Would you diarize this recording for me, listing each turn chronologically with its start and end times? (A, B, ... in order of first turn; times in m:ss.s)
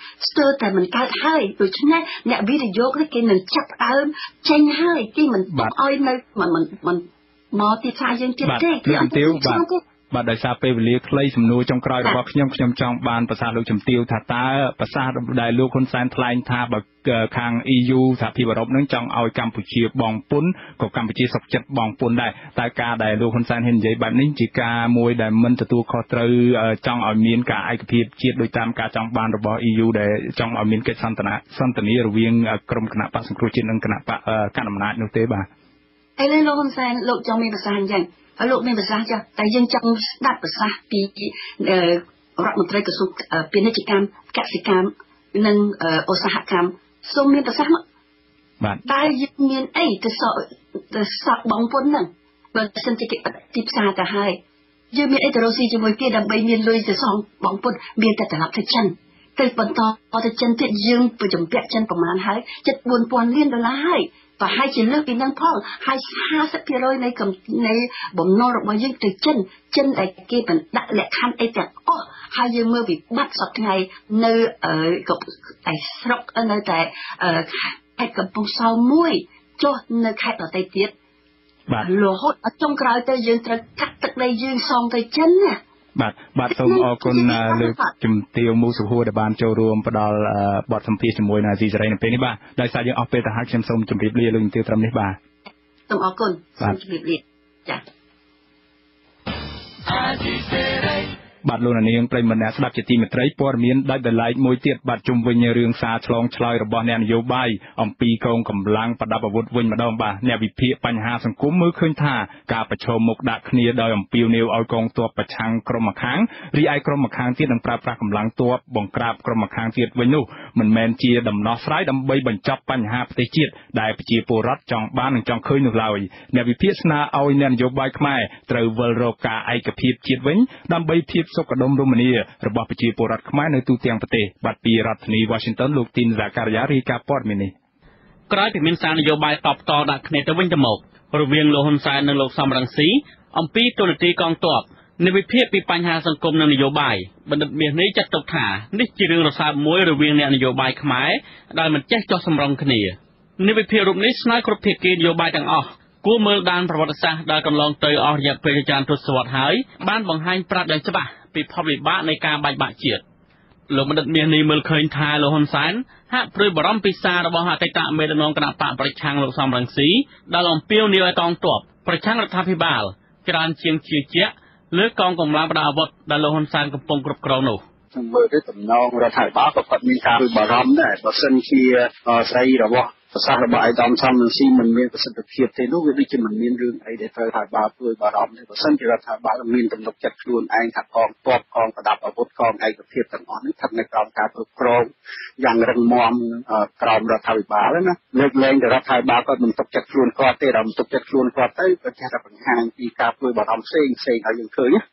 0:00.2-0:09.8 A
0:08.4-0:35.5 B
0:36.2-0:47.8 A
0:48.9-0:54.4 A
0:54.9-1:20.9 A
1:21.8-1:25.6 A
1:26.0-1:35.2 B
1:26.5-1:27.9 A
1:35.9-1:37.8 A
1:41.4-2:17.5 B
2:18.3-2:43.0 C
2:43.7-2:57.6 C
2:58.0-3:14.9 D
3:15.4-3:24.8 D